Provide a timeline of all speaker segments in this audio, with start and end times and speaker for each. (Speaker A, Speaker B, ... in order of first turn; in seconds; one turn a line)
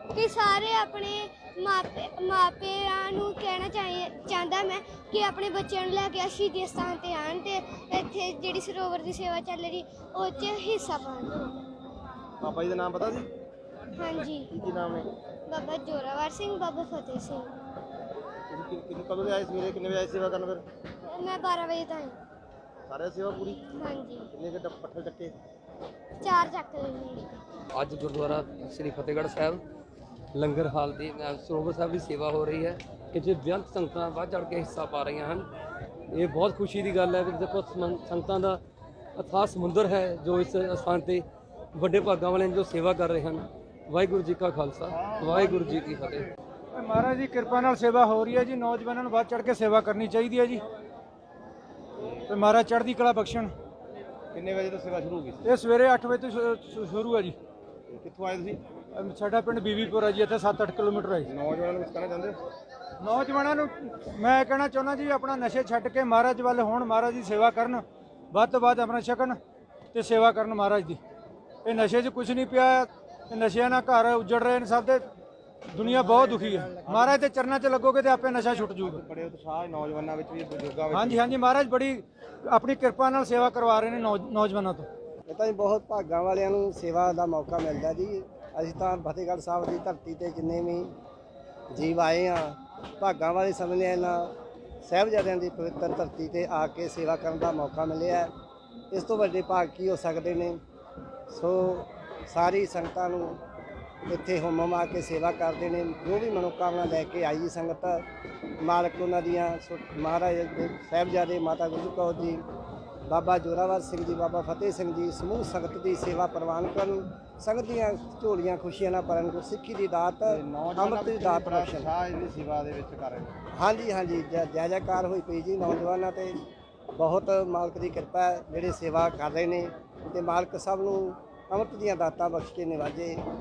Speaker A: 0.1-11.6
Speaker B: 12.4-13.3
Speaker A: 13.9-14.5
Speaker B: 14.5-15.1
Speaker A: 15.5-17.5
Speaker B: 18.5-20.6
Speaker A: 21.0-22.2
Speaker B: 22.9-23.6
Speaker A: 23.7-24.3
Speaker B: 24.3-25.3
Speaker A: 26.2-27.4
Speaker C: 27.7-29.6
Speaker C: 30.3-35.5
Speaker C: 36.1-38.6
Speaker C: 39.1-46.3
Speaker B: 45.1-45.6
Speaker D: 46.7-50.6
Speaker B: 52.0-52.2
Speaker D: 52.3-53.5
Speaker B: 54.3-55.5
Speaker D: 55.4-57.3
Speaker B: 57.9-58.6
Speaker D: 58.9-61.3
Speaker B: 61.2-62.4
Speaker D: 63.0-69.4
Speaker D: 69.9-71.0
Speaker D: 71.6-75.0
Speaker D: 75.7-79.0
Speaker B: 75.8-77.2
Speaker B: 78.4-81.2
Speaker D: 80.9-84.9
Speaker E: 85.3-90.9
Speaker E: 91.7-94.3
Speaker E: 94.8-98.3
Speaker E: 98.9-100.6
Speaker E: 101.3-103.4
Speaker E: 104.1-108.0
Speaker E: 108.6-112.4
Speaker E: 113.1-121.9
Speaker B: 120.3-123.4
Speaker E: 123.5-126.4
Speaker E: 126.9-133.2